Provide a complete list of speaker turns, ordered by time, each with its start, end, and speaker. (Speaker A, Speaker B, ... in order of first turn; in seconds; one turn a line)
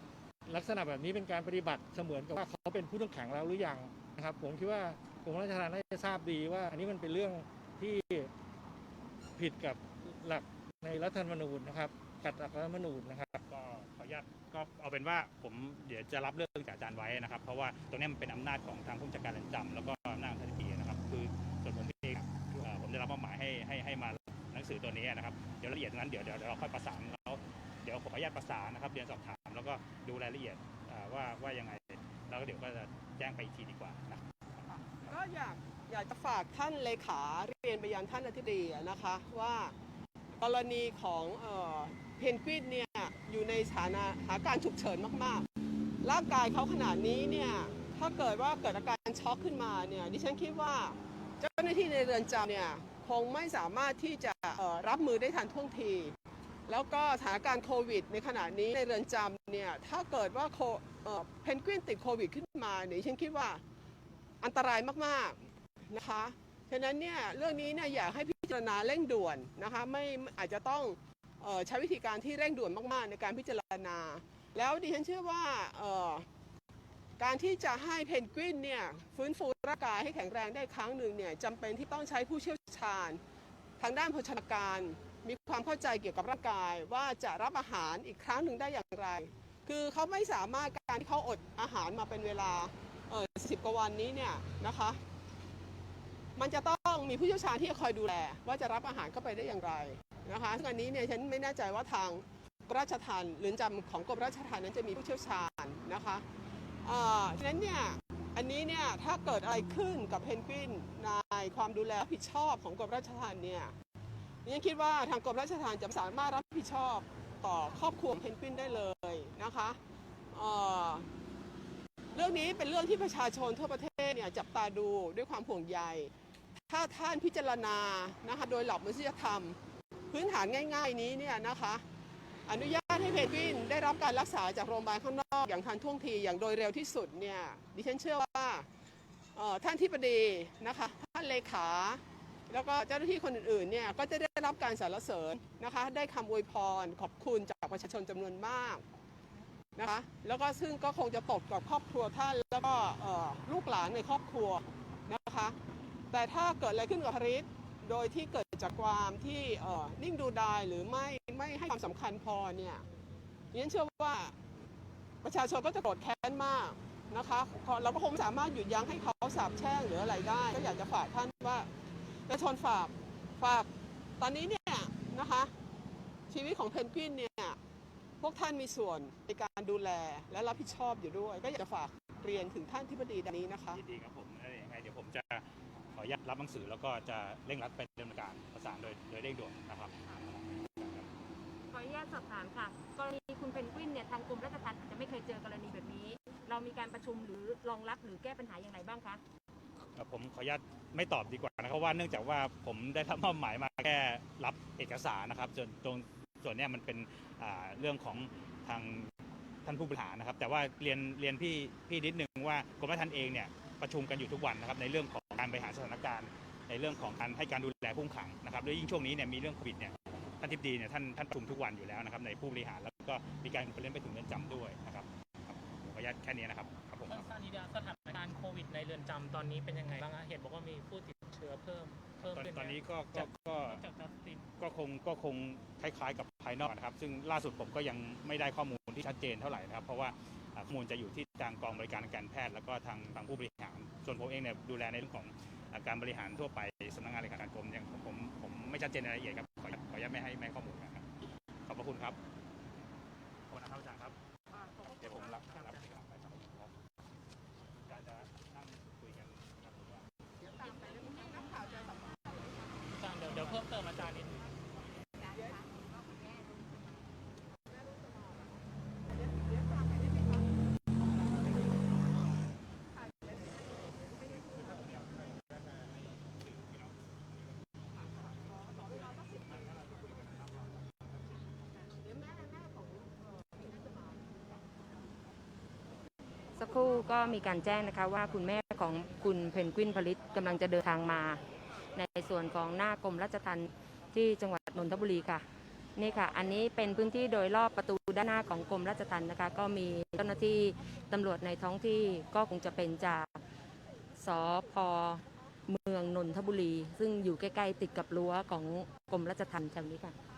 Speaker A: 0.5-8.3
Speaker A: 9.3-13.4
Speaker B: 13.5-34.7
Speaker C: 35.0-39.7
Speaker C: 40.4-45.5
Speaker C: 46.0-56.1
Speaker C: 56.7-63.6
Speaker C: 64.4-76.2
Speaker C: 77.2-83.2
Speaker C: 83.8-95.0
Speaker C: 96.3-106.2
Speaker C: 106.8-113.7
Speaker C: 114.4-119.8
Speaker C: 120.3-121.1
Speaker C: 122.1-126.1
Speaker C: 126.7-129.6
Speaker C: 130.1-131.8
Speaker C: 132.5-138.7
Speaker C: 139.3-148.8
Speaker C: 149.8-155.6
Speaker C: 156.1-162.8
Speaker C: 163.5-164.3
Speaker C: 165.2-171.7
Speaker C: 172.3-175.5
Speaker C: 176.3-177.6
Speaker C: 178.2-183.8
Speaker B: 183.7-191.1
Speaker D: 191.7-199.2
Speaker B: 199.9-209.1
Speaker B: 209.6-227.3
Speaker E: 227.1-234.5
Speaker B: 232.2-233.8
Speaker B: 234.6-251.1
Speaker B: 251.7-252.2
Speaker B: 253.5-254.2
Speaker B: 254.8-256.7
Speaker E: 255.1-255.9
Speaker B: 257.9-260.1
Speaker C: 260.4-262.9
Speaker E: 262.9-264.5
Speaker C: 265.2-265.8
Speaker C: 267.7-268.5
Speaker C: 269.1-270.4
Speaker C: 272.9-274.5
Speaker B: 274.3-277.7
Speaker C: 278.6-279.7
Speaker B: 278.8-281.0
Speaker C: 282.0-284.2
Speaker D: 286.5-303.4
Speaker D: 304.2-310.1